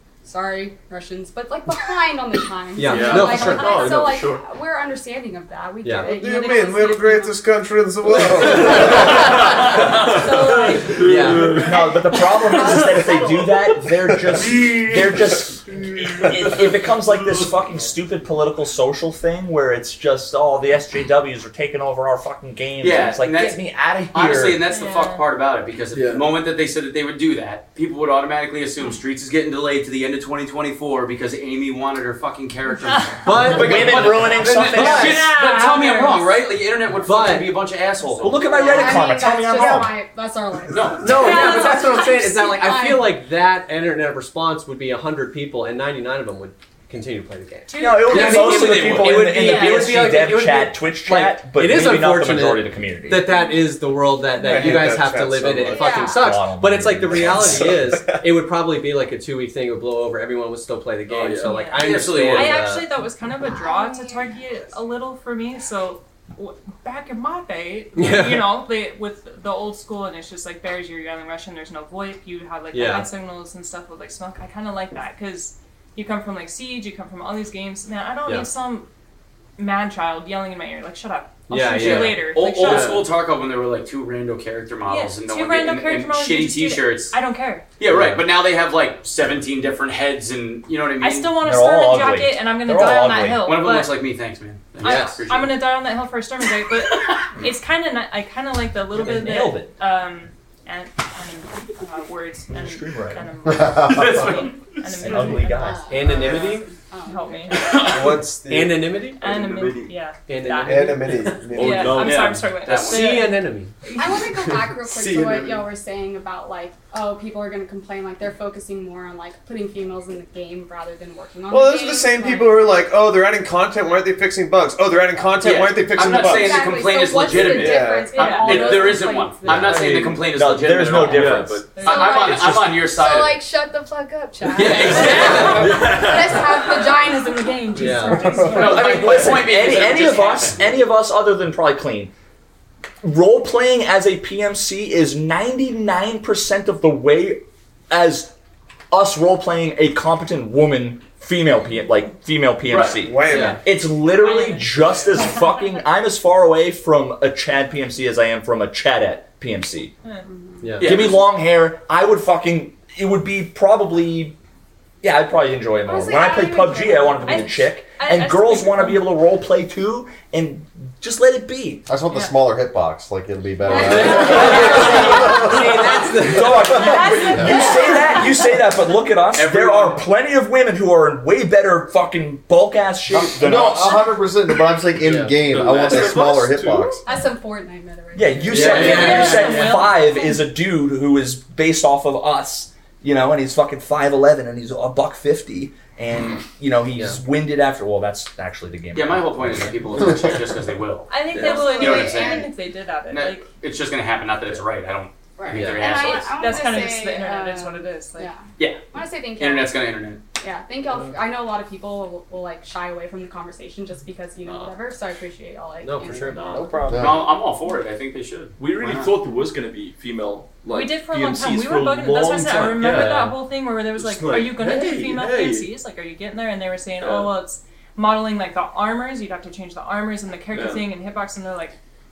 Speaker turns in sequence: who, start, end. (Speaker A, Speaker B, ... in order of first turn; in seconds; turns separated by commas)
Speaker A: 0.2-7.4, Speaker B: 2.8-4.0, Speaker C: 2.8-4.5, Speaker B: 5.8-6.2, Speaker D: 6.0-9.3, Speaker A: 8.4-13.4, Speaker C: 8.6-11.7, Speaker B: 10.9-11.6, Speaker E: 11.5-24.6, Speaker C: 14.1-17.5, Speaker F: 22.8-39.0, Speaker G: 24.7-25.2, Speaker C: 25.9-26.2, Speaker B: 33.2-35.1, Speaker E: 33.4-35.3, Speaker G: 34.7-36.3, Speaker B: 37.0-37.5, Speaker E: 38.2-39.9, Speaker A: 38.3-43.2, Speaker F: 40.7-41.5, Speaker B: 41.0-62.9, Speaker G: 41.1-42.1, Speaker G: 47.7-48.8, Speaker E: 47.8-53.2, Speaker F: 48.0-49.2, Speaker G: 53.3-53.6, Speaker G: 54.4-54.8, Speaker D: 54.4-56.0, Speaker A: 55.6-56.4, Speaker E: 56.0-57.8, Speaker D: 57.1-58.2, Speaker C: 61.1-61.8, Speaker G: 61.4-78.9, Speaker F: 61.8-62.6, Speaker A: 63.4-64.6, Speaker B: 68.0-68.5, Speaker B: 72.7-73.1, Speaker G: 79.6-83.0, Speaker B: 81.5-83.0, Speaker F: 81.7-87.2, Speaker G: 84.9-87.7, Speaker F: 87.8-91.3, Speaker B: 87.8-88.3, Speaker G: 91.0-94.0, Speaker E: 91.4-93.5, Speaker F: 93.4-95.6, Speaker G: 94.8-108.2, Speaker B: 94.8-95.2, Speaker E: 98.9-99.7, Speaker E: 102.5-103.2, Speaker H: 103.5-103.8, Speaker F: 103.8-104.6, Speaker E: 105.0-105.9, Speaker A: 105.5-107.6, Speaker B: 105.9-106.7, Speaker D: 107.8-109.0, Speaker B: 108.5-109.2, Speaker G: 109.2-113.4, Speaker C: 109.2-109.9, Speaker B: 110.3-111.4, Speaker D: 110.6-112.1, Speaker C: 111.5-112.6, Speaker F: 112.5-113.3, Speaker B: 112.7-113.7, Speaker A: 113.9-122.7, Speaker C: 114.9-115.6, Speaker D: 121.5-126.8, Speaker F: 125.4-133.4, Speaker A: 126.0-130.1, Speaker D: 127.4-128.2, Speaker G: 128.1-128.6, Speaker C: 128.5-129.0, Speaker E: 130.2-131.7, Speaker C: 130.9-131.9, Speaker G: 131.8-132.1, Speaker A: 131.8-139.0, Speaker B: 134.6-135.7, Speaker F: 134.6-135.6, Speaker C: 134.8-136.7, Speaker G: 135.1-136.0, Speaker G: 137.7-139.1, Speaker B: 137.8-138.4, Speaker F: 138.5-140.6, Speaker E: 138.5-142.1, Speaker E: 143.0-148.3, Speaker E: 148.9-159.9, Speaker F: 152.7-153.0, Speaker D: 153.0-153.7, Speaker B: 153.3-153.6, Speaker G: 154.1-155.4, Speaker A: 160.3-160.7, Speaker B: 160.6-161.0, Speaker F: 160.8-161.2, Speaker E: 160.8-164.4, Speaker E: 165.0-171.9, Speaker A: 165.8-167.5, Speaker G: 167.2-169.1, Speaker H: 171.9-175.7, Speaker A: 173.7-175.6, Speaker B: 173.7-177.0, Speaker E: 174.5-174.8, Speaker G: 174.9-175.4, Speaker E: 176.2-184.2, Speaker G: 176.7-178.2, Speaker F: 179.3-180.1, Speaker H: 183.1-187.0, Speaker B: 185.0-185.3, Speaker C: 185.1-186.9, Speaker D: 185.9-186.3, Speaker A: 187.0-189.4, Speaker E: 188.1-199.7, Speaker B: 188.5-189.8, Speaker G: 188.6-190.0, Speaker F: 198.9-202.5, Speaker G: 201.1-203.4, Speaker A: 201.3-202.5, Speaker F: 203.1-206.7, Speaker A: 205.4-209.7, Speaker B: 205.5-206.0, Speaker G: 206.0-208.3, Speaker F: 208.6-210.2, Speaker A: 210.4-216.8, Speaker B: 215.8-216.4, Speaker C: 216.3-216.8, Speaker D: 216.5-217.2, Speaker H: 216.8-217.2, Speaker F: 216.9-219.1, Speaker C: 218.6-223.4, Speaker G: 220.7-231.8, Speaker B: 222.8-223.3, Speaker C: 223.9-225.7, Speaker C: 227.0-227.3, Speaker C: 230.5-230.9